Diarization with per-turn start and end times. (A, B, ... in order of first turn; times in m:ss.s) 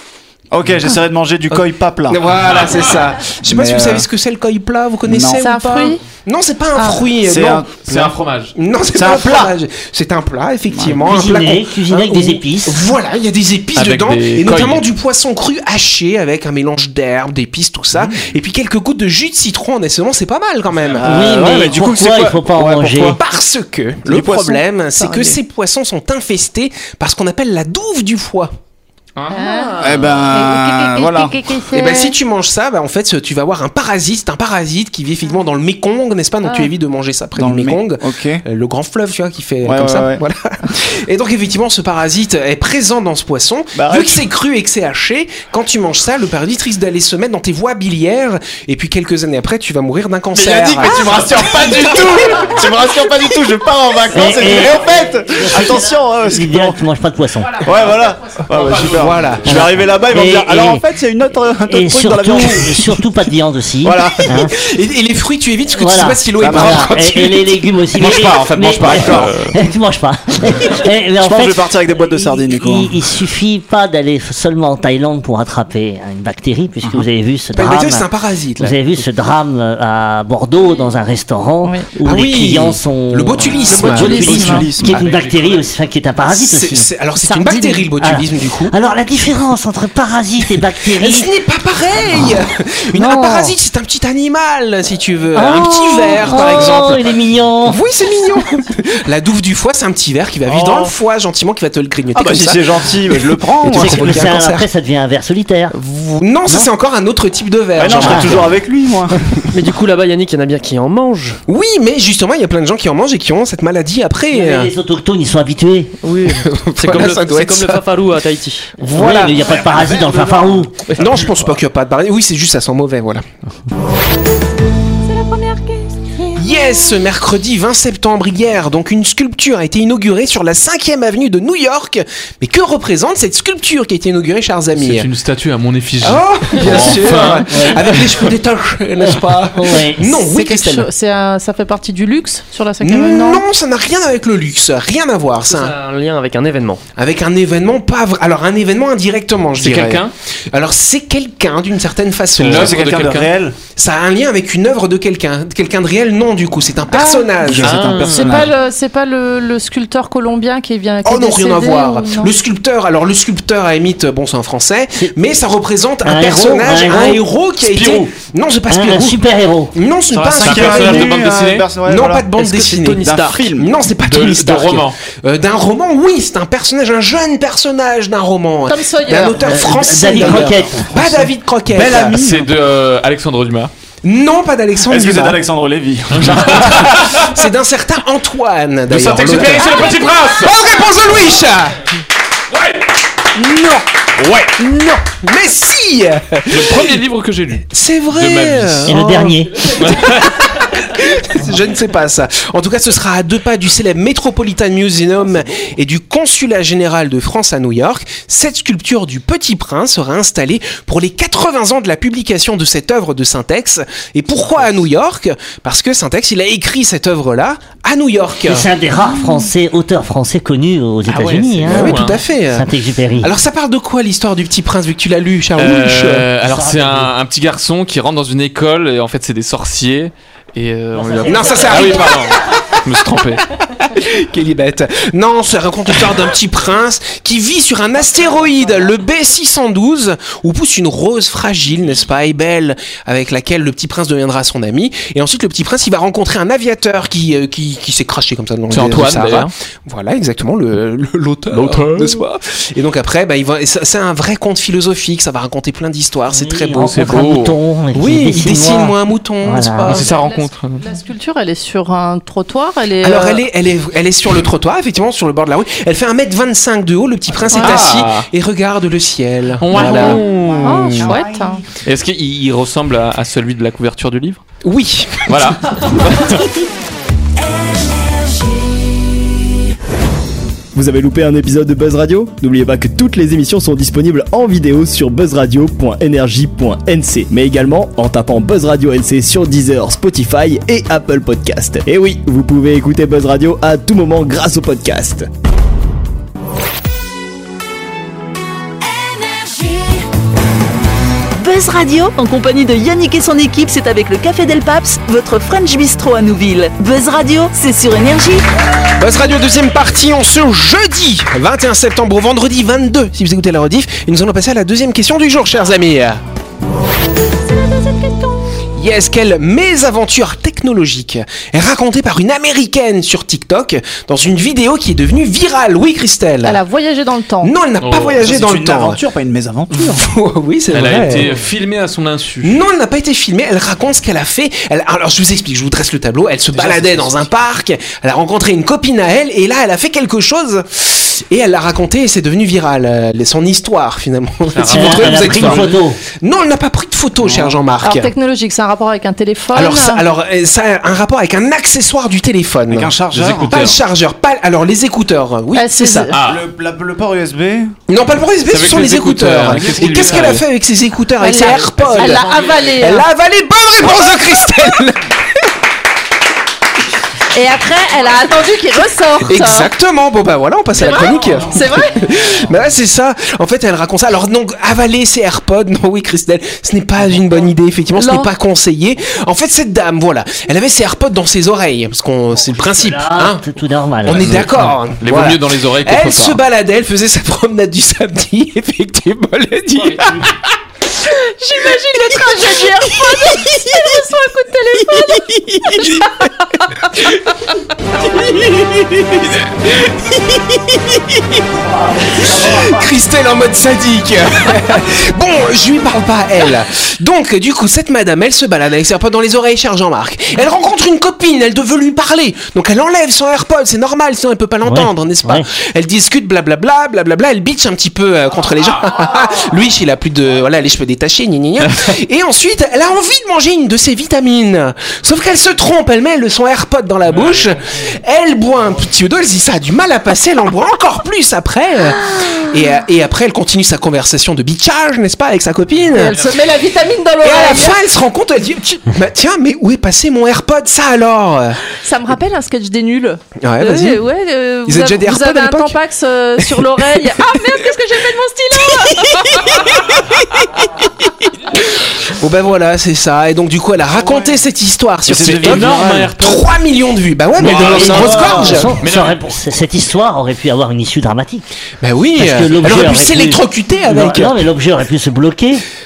0:00.5-0:02.2 A
0:01.5-0:07.7 B
0:02.5-0:02.8 C
0:03.4-0:04.1 A
0:05.1-0:05.4 A
0:05.4-0:06.0 D
0:06.8-0:07.0 D
0:07.2-0:08.2 A
0:07.8-0:08.5 C
0:08.6-0:22.1 B
0:08.9-0:09.5 A
0:10.7-0:11.1 A
0:11.0-0:12.9 E
0:13.8-0:14.9 C
0:18.0-0:18.3 A
0:21.0-0:23.2 A
0:21.0-0:23.2 E
0:23.0-0:28.5 B
0:24.1-0:24.6 A
0:25.0-0:25.4 D
0:29.2-0:30.1 C
0:29.3-0:29.9 D
0:29.8-0:31.6 A
0:30.6-0:32.1 D
0:31.7-0:52.5 B
0:36.4-0:36.7 D
0:37.4-0:38.4 A
0:39.6-0:40.2 A
0:43.8-0:44.3 A
0:50.3-0:56.8 A
0:50.8-0:52.3 C
0:54.1-0:57.6 E
0:57.6-1:03.0 A
0:58.6-0:59.0 C
0:58.7-0:59.7 B
1:00.1-1:00.8 E
1:01.7-1:04.5 E
1:03.8-1:04.2 A
1:03.9-1:07.6 B
1:05.8-1:18.1 E
1:06.4-1:06.9 A
1:08.0-1:09.6 C
1:08.9-1:09.3 A
1:11.2-1:13.0 A
1:17.5-1:18.8 B
1:18.6-1:26.9 E
1:22.0-1:25.1 B
1:23.6-1:25.0 A
1:23.8-1:24.7 D
1:24.8-1:25.6 C
1:26.3-1:28.8 B
1:27.2-1:27.9 D
1:28.0-1:31.3 E
1:30.9-1:44.7 B
1:32.1-1:32.4 E
1:33.0-1:33.3 E
1:33.2-1:33.5 D
1:35.4-1:37.8 E
1:40.5-1:40.9 A
1:42.1-1:44.3 A
1:43.7-1:45.7 E
1:45.7-1:48.5 B
1:47.8-1:49.5 A
1:47.9-1:48.5 E
1:49.5-1:51.4 F
1:51.5-1:54.7 B
1:54.3-1:56.0 E
1:56.0-1:58.8 F
1:56.4-1:57.8 B
1:58.8-1:59.6 B
1:58.8-2:00.8 E
2:01.0-2:03.2 B
2:05.2-2:05.8 D
2:06.4-2:15.1 B
2:14.8-2:18.3 C
2:16.0-2:20.9 B
2:17.5-2:17.8 E
2:19.0-2:20.1 E
2:20.2-2:23.4 D
2:22.8-2:25.7 B
2:25.5-2:26.8 F
2:27.0-2:32.8 B
2:29.6-2:30.1 C
2:32.4-2:33.3 C
2:32.4-2:33.6 A
2:33.8-2:37.9 B
2:36.9-2:37.3 D
2:37.4-2:38.5 A
2:37.6-2:38.4 C
2:38.1-2:42.3 D
2:41.0-2:49.2 B
2:46.0-2:48.1 E
2:48.7-2:49.7 E
2:49.7-2:51.1 B
2:50.1-2:51.7 C
2:50.2-2:53.7 A
2:51.8-3:02.2 B
2:54.0-2:55.0 C
2:58.7-2:59.4 D
2:59.4-3:01.0 E
3:00.9-3:02.6 A
3:02.0-3:03.7 C
3:04.0-3:05.4 B
3:04.9-3:07.2 A
3:06.1-3:07.2 C
3:06.6-3:11.8 B
3:08.9-3:10.6 C
3:13.4-3:13.8 B
3:14.2-3:14.5 C
3:14.6-3:17.0 B
3:16.5-3:19.0 C
3:17.7-3:38.7 B
3:18.9-3:19.7 E
3:19.7-3:20.3 C
3:38.4-3:43.3 E
3:41.1-3:42.2 C
3:41.3-3:46.3 B
3:45.6-3:53.4 C
3:46.4-3:47.1 E
3:50.9-3:52.2 E
3:51.2-3:52.8 B
3:53.9-4:17.2 B
4:08.7-4:09.5 C
4:11.5-4:12.2 C
4:16.3-4:20.0 E
4:16.8-4:17.6 C
4:17.9-4:20.1 B
4:19.8-4:20.8 C
4:19.9-4:23.4 D
4:23.0-4:30.3 B
4:27.4-4:28.3 C
4:29.6-4:31.2 C
4:29.8-4:31.6 D
4:30.3-4:31.3 A
4:31.8-4:34.4 C
4:34.6-4:36.0 B
4:35.3-4:36.4 C
4:40.7-4:55.3 G
5:01.4-5:08.4 H
5:09.0-5:16.2 B
5:18.8-5:26.6 B
5:26.4-5:27.5 D
5:27.4-5:29.0 B
5:27.8-5:28.2 C
5:27.9-5:30.1 A
5:29.7-5:31.3 B
5:30.7-5:32.6 C
5:32.4-5:48.1 B
5:36.5-5:37.2 C
5:44.5-5:45.7 C
5:44.7-5:46.0 E
5:47.2-5:47.6 A
5:47.8-5:50.0 D
5:49.6-5:52.9 B
5:52.7-5:53.7 A
5:53.1-5:53.8 C
5:53.5-5:56.1 B
5:55.6-5:56.1 D
5:56.1-5:56.4 C
5:56.2-5:57.8 A
5:57.9-6:05.4 B
5:58.5-6:00.4 C
5:59.4-6:00.4 A
6:01.2-6:03.0 D
6:01.8-6:02.7 C
6:07.3-6:09.7 D
6:09.3-6:23.4 B
6:10.8-6:12.0 D
6:18.0-6:18.3 D
6:22.5-6:24.5 E
6:24.0-6:30.6 B
6:24.1-6:26.4 C
6:31.0-6:36.9 D
6:33.3-6:33.6 B
6:35.0-6:36.1 B
6:37.0-6:37.2 B
6:38.1-6:41.4 B
6:42.1-7:16.2 B
6:42.2-6:42.8 A
6:54.6-6:55.5 E
7:07.1-7:07.5 C
7:16.0-7:17.8 D
7:17.2-7:21.6 B
7:21.7-7:29.6 D
7:23.4-7:24.0 B
7:24.7-7:25.8 B
7:26.4-7:27.1 B
7:28.7-7:38.8 B
7:34.0-7:34.3 A
7:35.1-7:36.2 A
7:35.1-7:36.5 C
7:37.4-7:38.3 C
7:37.4-7:41.5 E
7:37.7-7:38.6 A
7:38.8-7:39.4 C
7:41.8-7:44.5 B
7:42.2-7:45.6 E